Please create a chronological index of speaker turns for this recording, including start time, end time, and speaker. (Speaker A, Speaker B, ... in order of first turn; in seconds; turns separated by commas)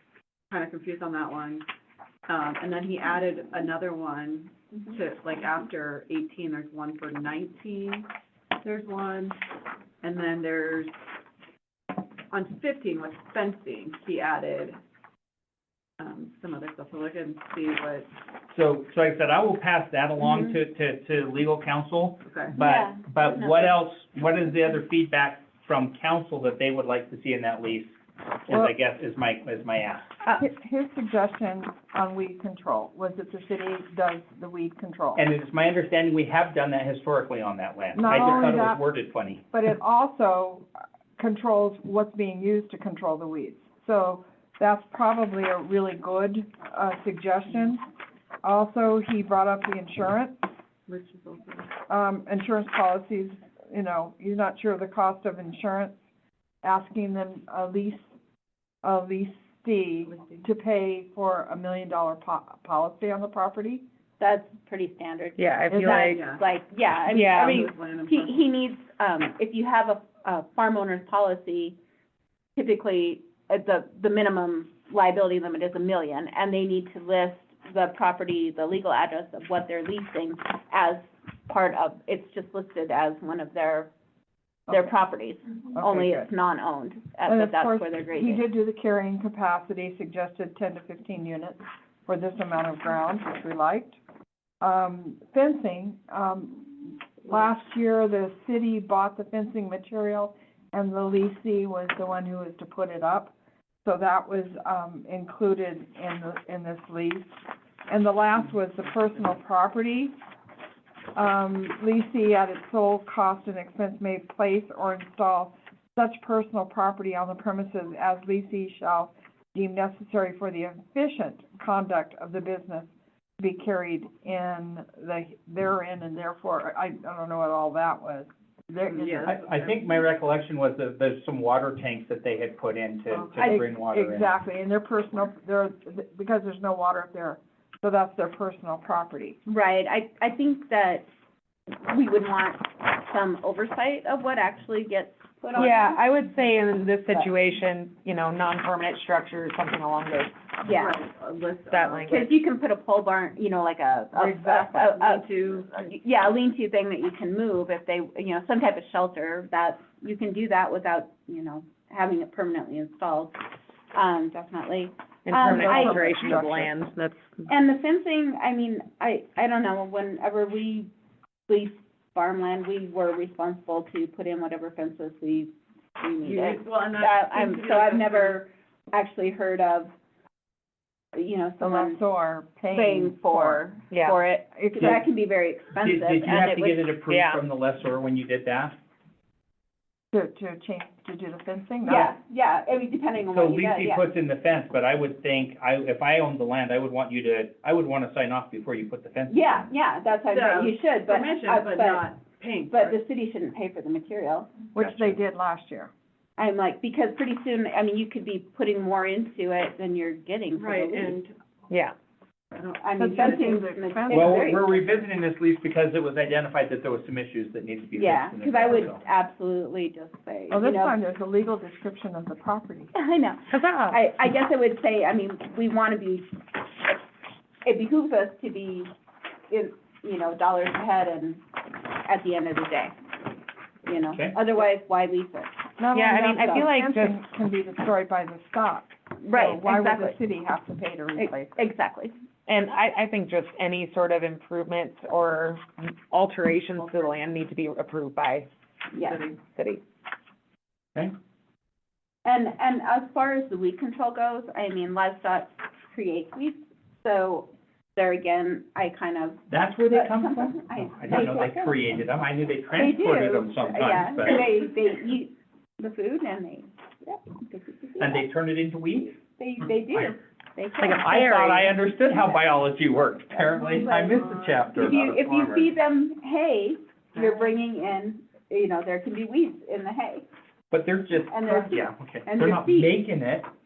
Speaker A: 0.5-1.6, Speaker A: 2.3-9.4, Speaker A: 10.0-10.9, Speaker A: 12.3-14.8, Speaker A: 16.0-18.1, Speaker B: 18.5-30.1, Speaker C: 20.2-20.6, Speaker A: 22.2-22.6, Speaker C: 22.6-23.7, Speaker D: 30.4-35.2, Speaker B: 35.2-39.4, Speaker D: 37.9-38.8, Speaker D: 39.5-40.7, Speaker D: 41.2-47.8, Speaker D: 48.4-50.4, Speaker A: 50.9-51.7, Speaker D: 51.9-55.9, Speaker D: 56.6-58.0, Speaker D: 58.8-63.8, Speaker A: 60.1-60.4, Speaker C: 64.2-71.8, Speaker E: 65.4-66.2, Speaker D: 65.7-66.0, Speaker A: 66.0-66.4, Speaker E: 67.1-67.7, Speaker A: 67.1-68.4, Speaker C: 72.5-83.9, Speaker C: 84.7-88.4, Speaker D: 85.7-86.3, Speaker D: 87.2-94.0, Speaker D: 94.6-103.3, Speaker D: 103.8-107.3, Speaker D: 107.9-110.1, Speaker D: 111.1-129.4, Speaker A: 128.9-130.1, Speaker B: 129.3-134.3, Speaker D: 133.4-139.4, Speaker C: 139.4-141.1, Speaker C: 141.8-146.0, Speaker E: 145.5-150.3, Speaker C: 150.6-151.0, Speaker A: 150.7-152.3, Speaker E: 151.7-152.2, Speaker C: 152.1-163.4, Speaker A: 154.1-155.9, Speaker C: 163.9-166.5, Speaker E: 165.2-167.2, Speaker D: 165.5-166.5, Speaker C: 167.5-170.9, Speaker C: 171.5-179.9, Speaker A: 176.2-178.4, Speaker C: 181.1-182.0, Speaker D: 181.6-183.6, Speaker C: 182.7-186.8, Speaker E: 183.9-184.2, Speaker D: 184.5-184.9, Speaker B: 185.7-188.7, Speaker E: 187.1-187.4, Speaker D: 190.1-192.1, Speaker C: 191.8-194.1, Speaker B: 193.3-199.7, Speaker C: 199.3-202.1, Speaker A: 200.3-203.0, Speaker C: 202.7-204.6, Speaker D: 204.7-205.9, Speaker B: 204.8-205.2, Speaker C: 206.4-211.2, Speaker A: 210.5-211.3, Speaker E: 211.7-211.9, Speaker A: 212.5-213.8, Speaker C: 212.8-215.0, Speaker D: 213.0-214.3, Speaker B: 214.1-219.0, Speaker C: 217.9-220.9, Speaker D: 220.5-222.9, Speaker C: 222.9-227.0, Speaker E: 223.5-224.0, Speaker C: 227.6-228.9, Speaker C: 229.5-232.9, Speaker C: 233.8-235.6, Speaker B: 234.1-234.4, Speaker D: 235.8-241.6, Speaker E: 235.9-237.2, Speaker C: 236.4-236.7, Speaker C: 239.2-240.2, Speaker C: 241.2-242.1, Speaker E: 242.5-248.5, Speaker A: 246.8-247.1, Speaker C: 248.9-249.2, Speaker A: 248.9-249.4, Speaker E: 249.5-249.8, Speaker C: 252.2-261.8, Speaker B: 259.5-264.4, Speaker C: 262.7-268.3, Speaker B: 268.0-269.2, Speaker C: 269.4-271.0, Speaker B: 269.7-270.2, Speaker B: 270.8-275.7, Speaker E: 271.0-271.7, Speaker C: 272.1-272.4, Speaker C: 273.8-274.2, Speaker C: 274.7-280.2, Speaker B: 280.7-283.5, Speaker C: 281.2-282.9